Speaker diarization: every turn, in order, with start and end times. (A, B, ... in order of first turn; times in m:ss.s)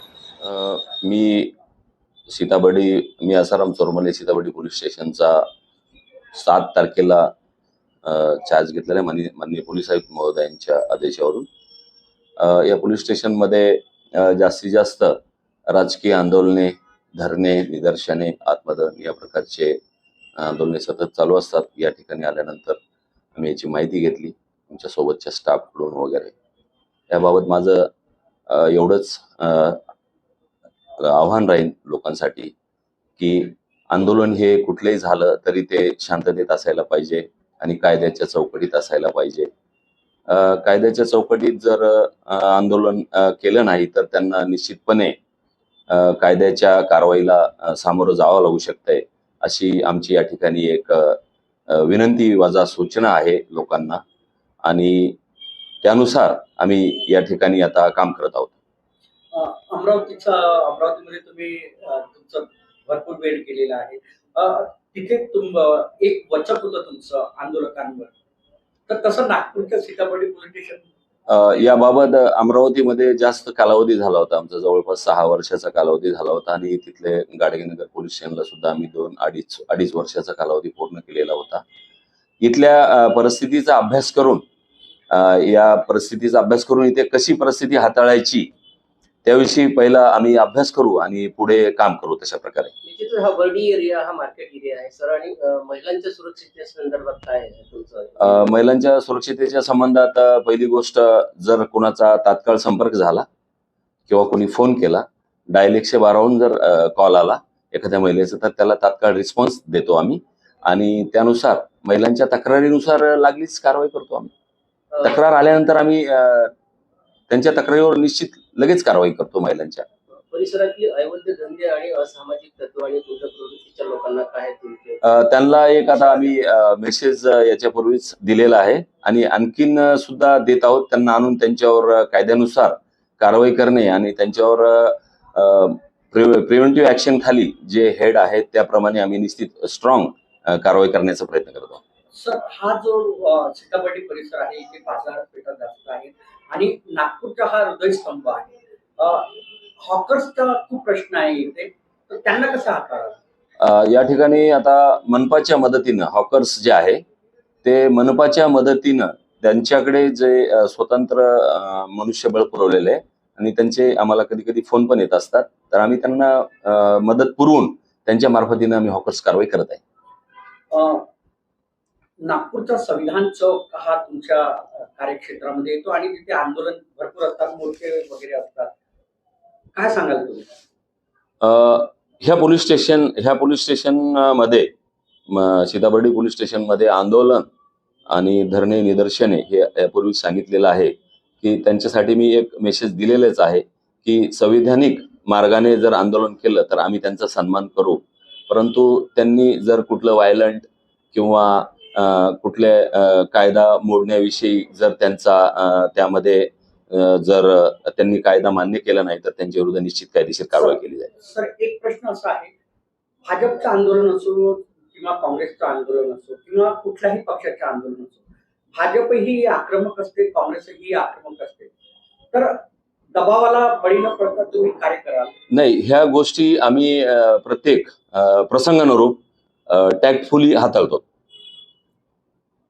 0:00.4-0:01.5 A
0:02.3-0:05.5 A
0:06.3-0:07.3 A
0:08.0-0:11.5 A
0:12.4-0:15.2 A
0:15.7-0:19.8 A
0:20.4-0:22.8 A
0:23.4-0:26.3 A
0:27.1-0:27.9 A
0:28.5-0:29.8 A
0:31.0-0:32.5 A
0:33.2-0:39.5 A
0:40.3-0:45.2 A
0:45.9-0:54.0 A
0:54.6-0:55.2 A
0:55.8-0:58.6 A
0:59.3-1:08.1 B
1:08.9-1:10.8 B
1:11.3-1:21.6 A
1:22.4-1:24.4 A
1:25.1-1:28.5 A
1:29.2-1:32.7 A
1:32.8-1:38.4 C
1:38.2-1:43.3 A
1:44.1-1:54.3 A
1:55.0-1:56.5 A
1:57.3-1:59.9 A
2:00.3-2:05.0 C
2:05.0-2:21.8 A
2:05.9-2:06.3 C
2:22.1-2:33.2 B
2:33.6-2:37.0 A
2:37.6-2:49.8 A
2:50.7-2:51.1 B
2:52.2-2:58.7 B
2:59.8-3:00.5 B
3:01.4-3:04.7 A
3:05.3-3:07.5 A
3:08.1-3:31.1 A
3:30.6-3:32.5 B
3:33.2-3:38.2 B
3:38.7-3:41.7 B
3:42.3-3:45.3 B
3:45.5-3:51.0 A